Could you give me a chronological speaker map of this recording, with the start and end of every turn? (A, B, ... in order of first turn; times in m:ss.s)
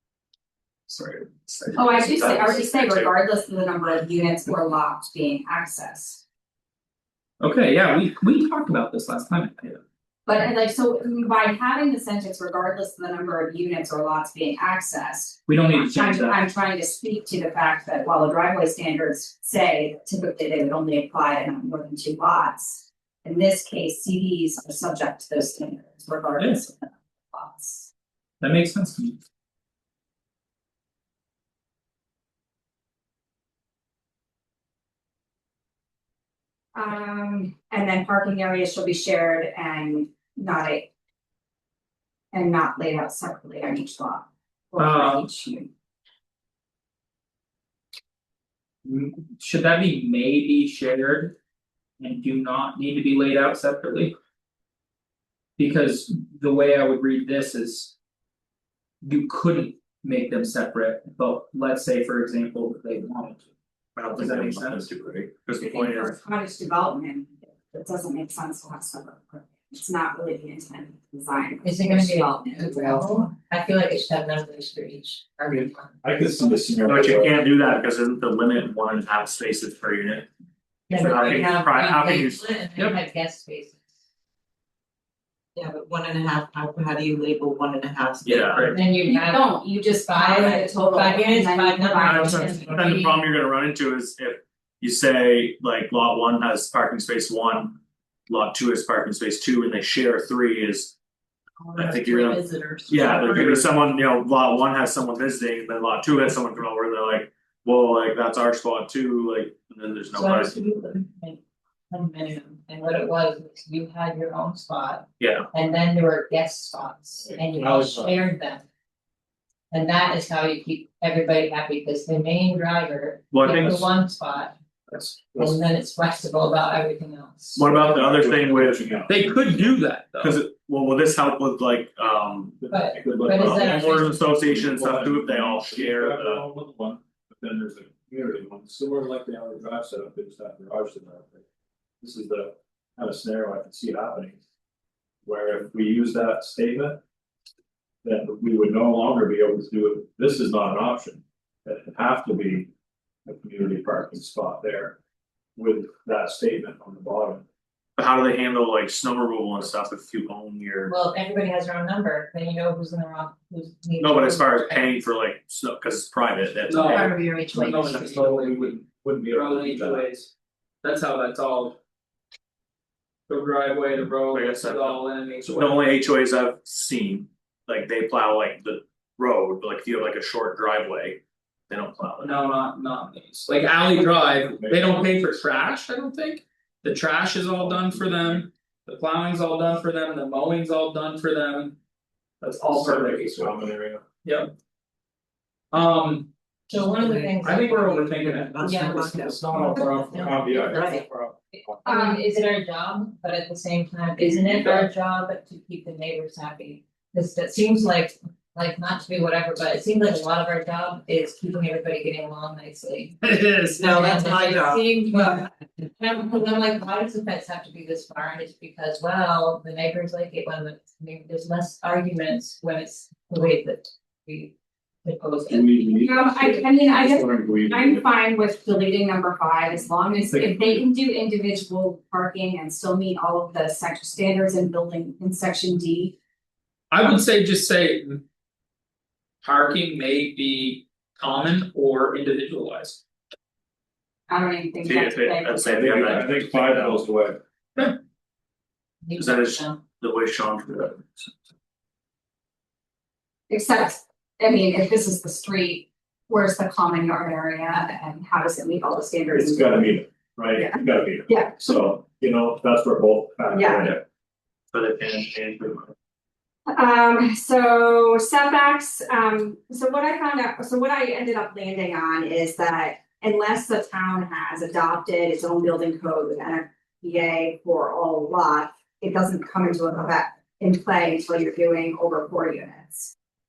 0:01.0-0:03.1 A
0:01.8-0:06.2 B
0:07.4-0:09.8 C
0:10.3-0:27.9 B
0:15.5-0:16.4 C
0:26.4-0:26.6 C
0:28.4-0:29.2 C
0:36.7-0:40.9 B
0:42.3-0:45.7 B
0:44.8-0:45.3 C
0:48.8-0:51.4 C
0:52.0-0:54.2 C
0:55.6-0:58.0 C
0:59.0-1:03.5 C
1:04.0-1:06.2 A
1:04.1-1:04.9 C
1:05.6-1:13.3 B
1:11.6-1:16.0 D
1:15.5-1:17.4 E
1:16.9-1:20.3 A
1:20.9-1:23.8 D
1:20.9-1:22.5 A
1:25.6-1:28.7 F
1:28.2-1:28.7 A
1:28.5-1:28.8 C
1:28.6-1:29.5 D
1:29.0-1:32.8 B
1:30.1-1:33.2 D
1:32.0-1:41.0 A
1:41.6-1:43.6 F
1:41.8-1:50.6 A
1:43.0-1:43.4 D
1:50.1-1:58.6 D
1:55.2-1:55.5 A
1:57.2-1:58.2 E
1:59.7-2:04.6 D
2:03.3-2:03.9 A
2:04.9-2:05.6 E
2:05.4-2:07.6 D
2:07.6-2:09.0 A
2:07.6-2:09.4 E
2:09.1-2:10.4 C
2:10.2-2:12.6 A
2:12.6-2:21.4 E
2:12.7-2:14.2 D
2:13.3-2:16.4 A
2:22.0-2:24.4 E
2:25.2-2:27.0 E
2:28.0-2:32.7 E
2:33.3-2:35.0 E
2:35.6-2:37.4 E
2:38.0-2:41.0 A
2:40.9-2:45.0 D
2:44.0-2:47.1 A
2:46.7-2:50.3 C
2:46.8-2:48.0 D
2:47.7-2:50.1 E
2:50.8-2:51.8 C
2:53.3-2:55.8 C
2:54.3-3:02.4 A
3:02.2-3:11.8 C
3:04.3-3:05.0 E
3:07.6-3:08.5 E
3:12.4-3:13.6 C
3:12.7-3:14.0 E
3:14.2-3:14.5 C
3:15.7-3:16.3 C
3:16.7-3:18.1 D
3:16.8-3:17.4 F
3:17.4-3:19.4 C
3:18.1-3:21.0 F
3:18.6-3:33.2 D
3:19.2-3:21.4 E
3:21.9-3:22.2 B
3:33.2-3:33.8 C
3:33.8-3:34.9 F
3:33.8-3:44.5 D
3:45.0-3:45.8 D
3:45.5-3:48.0 E
3:45.9-3:56.1 B
3:50.3-3:50.7 E
3:56.9-3:58.2 C
3:59.4-4:03.0 C
4:04.3-4:05.6 B
4:04.8-4:07.0 A
4:05.6-4:07.4 E
4:09.0-4:09.8 D
4:09.2-4:11.3 A
4:13.5-4:20.0 B
4:19.3-4:24.0 E
4:20.6-4:21.6 B
4:23.5-4:24.0 B
4:24.7-4:25.9 A
4:26.7-4:43.1 B